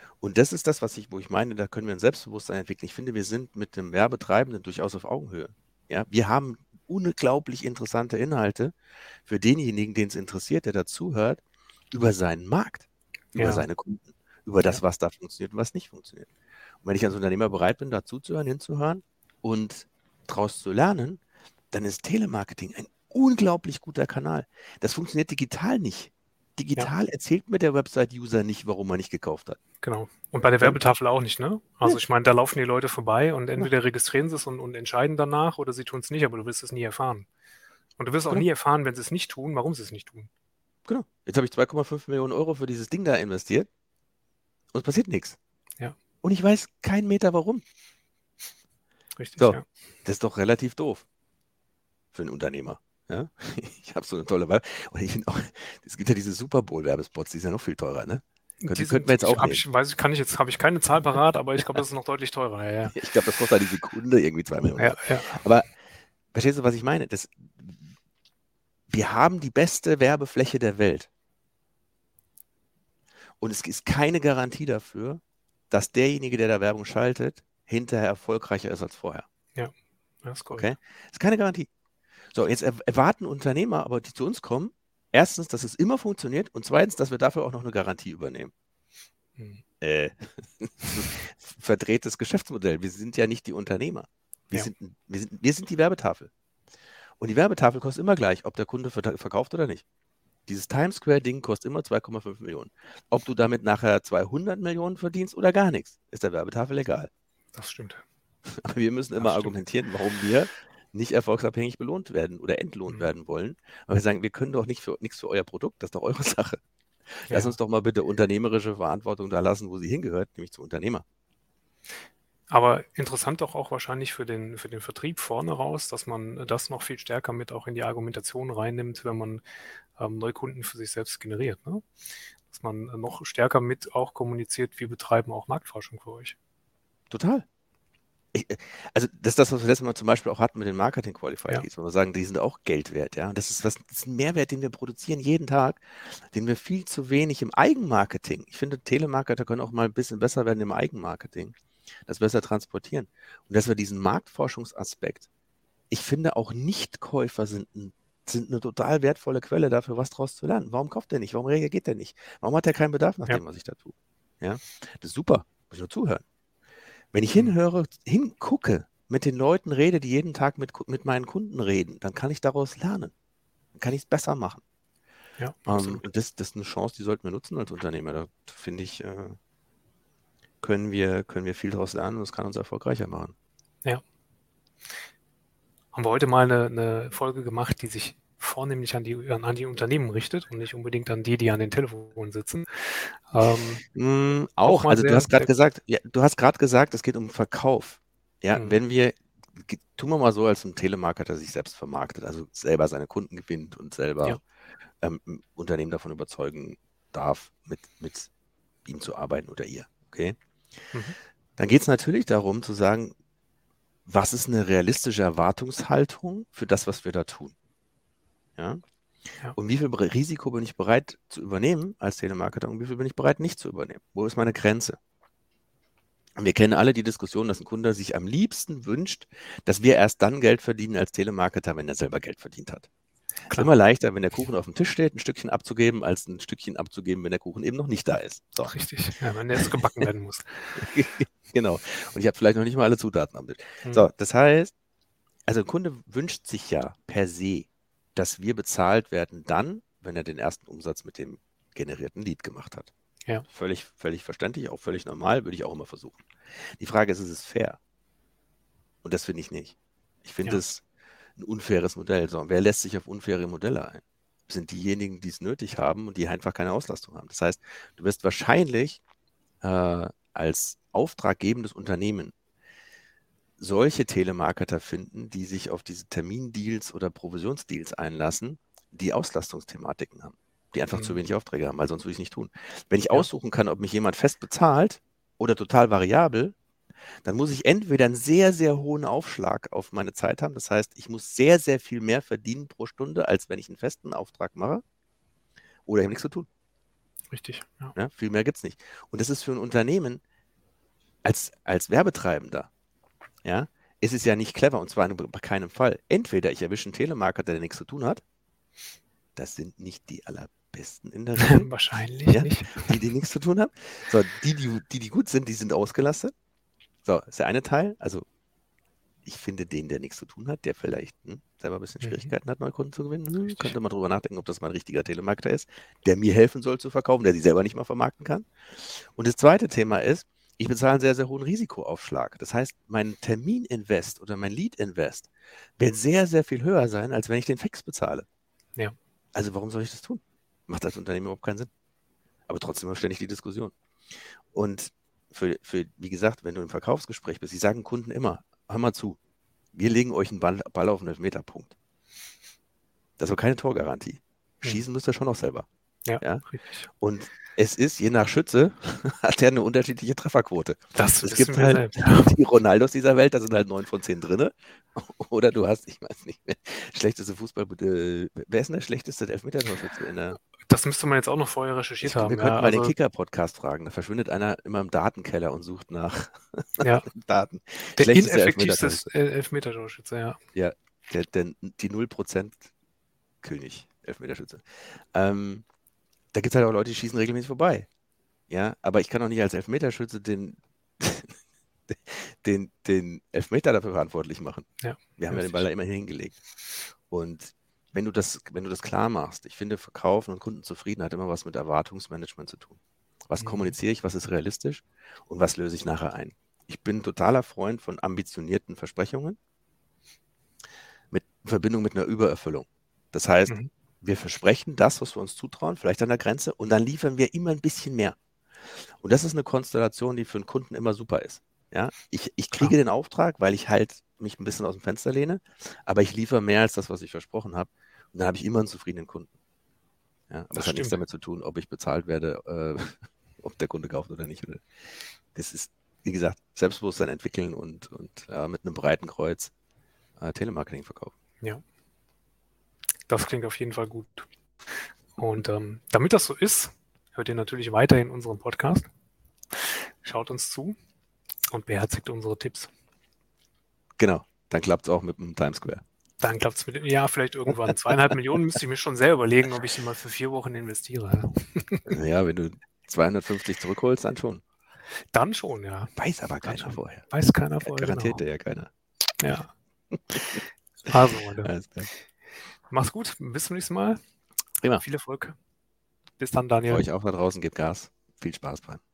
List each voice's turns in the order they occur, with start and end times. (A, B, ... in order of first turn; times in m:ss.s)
0:00.2-0:16.3 A
0:13.4-0:13.7 B
0:16.8-0:21.2 A
0:21.7-0:29.6 A
0:29.8-0:37.3 B
0:38.0-0:40.3 B
0:40.8-0:43.7 A
0:44.7-0:45.4 A
0:46.2-0:47.6 A
0:49.2-0:49.6 B
0:49.4-0:51.0 A
0:52.1-0:59.6 A
0:58.6-1:03.0 B
1:02.9-1:05.7 A
1:04.7-1:05.4 B
1:06.3-1:07.8 A
1:08.9-1:11.1 A
1:13.4-1:19.2 A
1:19.5-1:20.7 B
1:20.5-1:21.7 A
1:22.3-1:28.5 A
1:29.4-1:29.6 B
1:29.8-1:36.3 A
1:37.2-1:39.8 A
1:40.5-1:47.1 A
1:47.5-1:48.0 B
1:48.5-1:56.6 A
1:49.2-1:49.6 B
1:57.1-2:01.0 A
1:57.3-1:57.6 B
2:02.5-2:09.4 B
2:10.0-2:11.8 B
2:12.5-2:16.4 B
2:17.1-2:17.4 A
2:18.3-2:31.6 A
2:32.1-2:35.3 A
2:35.9-2:46.2 A
2:47.1-2:53.1 A
2:53.7-2:54.6 A
2:55.4-2:56.0 B
2:55.7-2:59.4 A
3:00.6-3:03.3 A
3:05.9-3:13.8 B
3:13.9-3:24.4 A
3:14.6-3:15.5 B
3:25.0-3:28.3 A
3:28.8-3:30.4 A
3:31.6-3:33.1 A
3:34.0-3:37.5 A
3:38.6-3:38.8 A
3:39.6-3:45.0 A
3:46.4-3:52.9 A
3:53.5-3:58.7 A
3:58.6-4:00.8 B
3:59.6-4:00.0 A
4:00.7-4:04.7 A
4:05.5-4:12.9 A
4:13.5-4:16.2 A
4:16.8-4:17.8 A
4:19.0-4:20.8 A
4:21.4-4:29.0 A
4:29.6-4:32.3 A
4:33.6-4:46.5 A
4:40.9-4:41.2 B
4:47.2-4:54.8 A
4:55.8-4:56.5 A
4:57.3-4:57.9 B
4:57.9-5:00.2 A
5:01.2-5:02.7 A
5:03.4-5:08.2 A
5:09.4-5:11.7 A
5:11.4-5:13.0 B
5:12.2-5:16.3 A
5:17.0-5:18.2 A
5:19.2-5:38.2 A
5:22.0-5:22.3 B
5:23.4-5:23.8 B
5:39.3-5:41.7 A
5:42.5-5:43.7 A
5:44.5-5:49.2 A
5:49.7-5:51.7 A
5:53.2-5:55.7 A
5:56.0-5:56.9 B
5:57.0-6:10.4 A
6:00.9-6:02.4 B
6:10.6-6:12.9 B
6:12.0-6:19.0 A
6:16.8-6:17.1 B
6:18.0-6:20.4 B
6:20.5-6:22.7 A
6:23.4-6:25.6 A
6:26.3-6:27.9 A
6:28.5-6:31.3 A
6:31.9-6:34.7 A
6:34.8-6:35.7 B
6:35.2-6:36.4 A
6:37.1-6:49.4 A
6:43.4-6:43.7 B
6:51.1-6:58.2 A
6:59.0-7:09.3 A
7:10.3-7:14.6 A
7:10.5-7:11.0 B
7:15.3-7:19.5 A
7:20.2-7:21.1 A
7:23.1-7:24.2 B
7:25.2-7:28.9 B
7:29.5-7:30.8 B
7:31.5-7:32.7 B
7:34.0-7:35.8 A
7:36.2-7:42.0 B
7:41.9-7:44.4 A
7:45.1-7:45.9 B
7:46.0-7:47.1 A
7:46.4-7:48.2 B
7:47.6-7:48.7 A
7:49.2-7:49.5 B
7:50.1-7:51.9 A
7:50.9-7:52.0 B
7:52.7-7:54.0 B
7:54.8-7:55.4 B
7:56.2-7:56.8 B
7:56.7-7:58.8 A